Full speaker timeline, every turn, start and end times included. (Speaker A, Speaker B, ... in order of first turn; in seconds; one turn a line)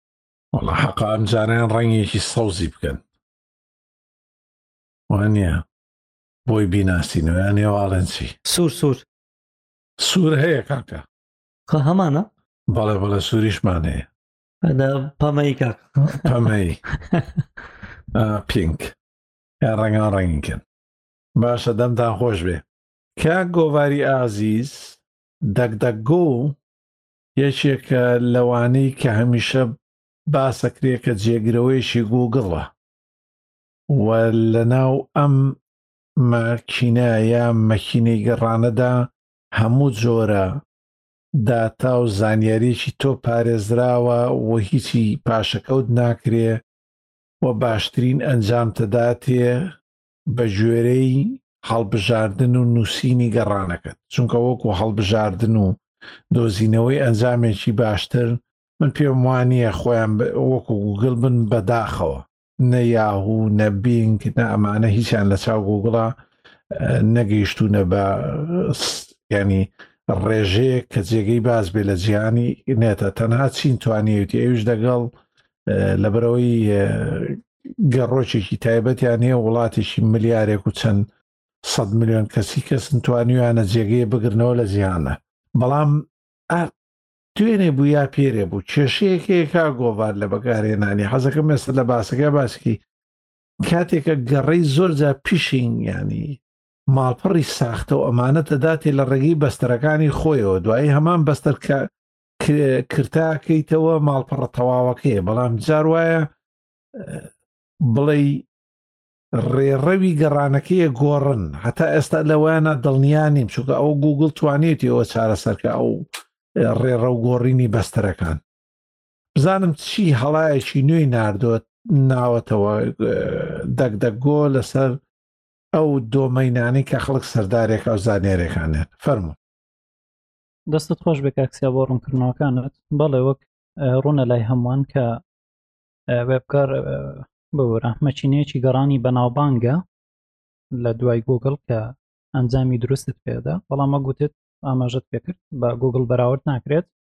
Speaker A: 0.5-3.0
Speaker A: 5.1-5.6
Speaker A: 6.5-8.4
Speaker B: 8.4-9.1
Speaker A: 10.0-11.1
Speaker B: 11.7-12.3
Speaker A: 12.7-14.1
Speaker B: 14.6-16.3
Speaker A: 16.1-16.8
Speaker A: 18.1-18.9
Speaker A: 19.6-20.6
Speaker A: 21.4-22.6
Speaker A: 23.2-26.6
Speaker A: 27.4-29.7
Speaker A: 30.3-32.7
Speaker A: 33.9-35.6
Speaker A: 36.2-40.6
Speaker A: 41.4-46.6
Speaker A: 47.4-49.7
Speaker A: 50.3-55.8
Speaker A: 56.3-66.1
Speaker A: 66.7-75.1
Speaker A: 75.7-81.1
Speaker A: 81.6-86.7
Speaker A: 87.3-92.8
Speaker A: 93.7-101.9
Speaker A: 102.4-106.3
Speaker A: 107.0-107.3
Speaker A: 107.8-108.5
Speaker A: 109.3-118.4
Speaker A: 119.4-125.0
Speaker A: 125.7-129.4
Speaker C: 130.7-135.2
Speaker C: 136.1-139.8
Speaker C: 140.7-146.9